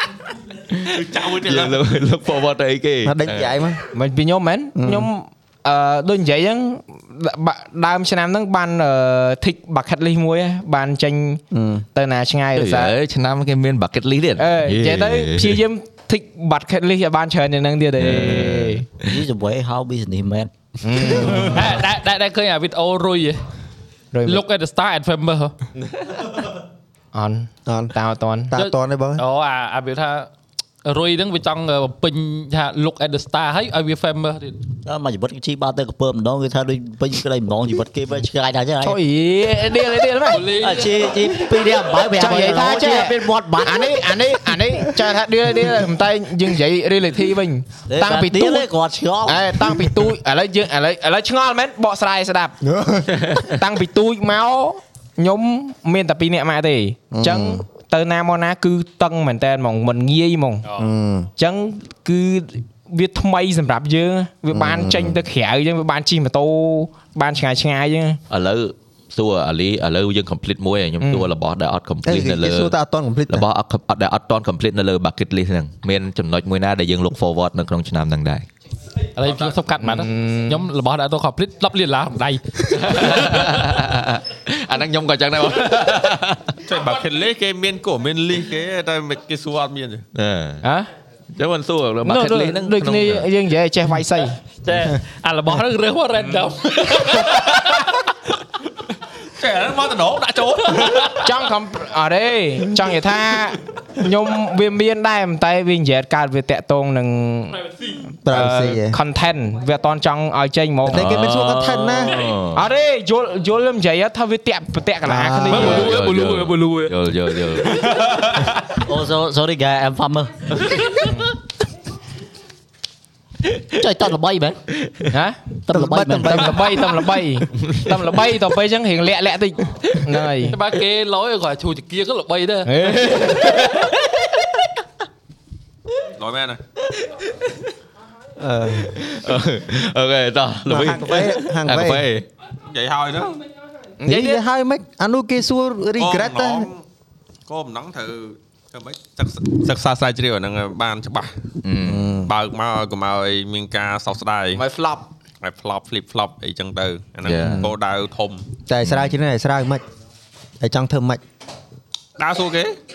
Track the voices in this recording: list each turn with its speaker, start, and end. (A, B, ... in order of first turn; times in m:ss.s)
0:00.7-0:03.5 A
0:00.8-0:01.9 B
0:03.0-0:03.8 C
0:03.9-0:11.4 D
0:04.8-0:05.1 C
0:11.5-0:11.8 C
0:11.9-0:12.9 D
0:12.5-0:15.6 A
0:14.4-0:18.8 D
0:18.0-0:19.1 A
0:19.0-0:20.5 E
0:20.8-0:21.7 D
0:21.5-0:23.4 F
0:24.1-0:24.4 D
0:24.2-0:25.5 F
0:27.1-0:28.5 D
0:27.6-0:27.9 C
0:28.5-0:29.2 C
0:28.5-0:30.3 F
0:30.8-0:34.6 F
0:34.8-0:39.0 E
0:38.8-0:40.5 D
0:40.3-0:41.4 F
0:40.5-0:44.0 E
0:42.1-0:48.7 D
0:47.9-0:49.5 E
0:49.2-0:52.6 D
0:52.6-0:53.2 C
0:53.5-1:00.6 D
0:57.1-0:57.6 C
1:00.8-1:01.3 C
1:01.4-1:08.2 D
1:04.5-1:05.2 C
1:08.3-1:12.7 A
1:11.0-1:11.3 D
1:12.0-1:13.5 C
1:13.3-1:18.4 A
1:19.2-1:23.5 F
1:19.8-1:20.6 D
1:22.7-1:26.6 A
1:26.6-1:30.0 B
1:30.1-1:30.6 A
1:30.6-1:30.9 D
1:31.3-1:33.3 A
1:32.0-1:34.4 D
1:34.6-1:37.9 F
1:39.4-1:41.2 B
1:41.2-1:47.6 D
1:48.2-1:49.0 C
1:48.3-1:51.1 D
1:50.9-1:52.2 C
1:50.9-1:52.6 A
1:52.5-1:55.9 D
1:55.0-1:55.9 C
1:55.5-1:57.0 F
1:55.5-1:57.9 A
1:58.8-2:00.6 E
2:03.8-2:04.6 E
2:05.1-2:05.4 D
2:05.7-2:06.5 E
2:05.7-2:06.8 C
2:06.1-2:10.6 D
2:07.6-2:08.0 A
2:10.4-2:12.8 F
2:12.6-2:13.8 D
2:12.9-2:14.5 A
2:16.2-2:16.6 B
2:17.0-2:17.6 A
2:18.4-2:19.0 C
2:18.9-2:22.2 A
2:20.6-2:22.1 C
2:22.6-2:23.4 B
2:24.0-2:24.4 D
2:24.0-2:26.7 C
2:26.0-2:26.8 B
2:27.5-2:31.3 B
2:31.6-2:32.2 A
2:31.8-2:32.3 C
2:32.2-2:34.6 B
2:34.5-2:35.0 D
2:35.4-2:38.5 B
2:37.2-2:37.7 A
2:37.4-2:37.7 C
2:38.7-2:39.8 C
2:38.8-2:39.2 A
2:40.6-2:41.2 C
2:42.2-2:42.8 B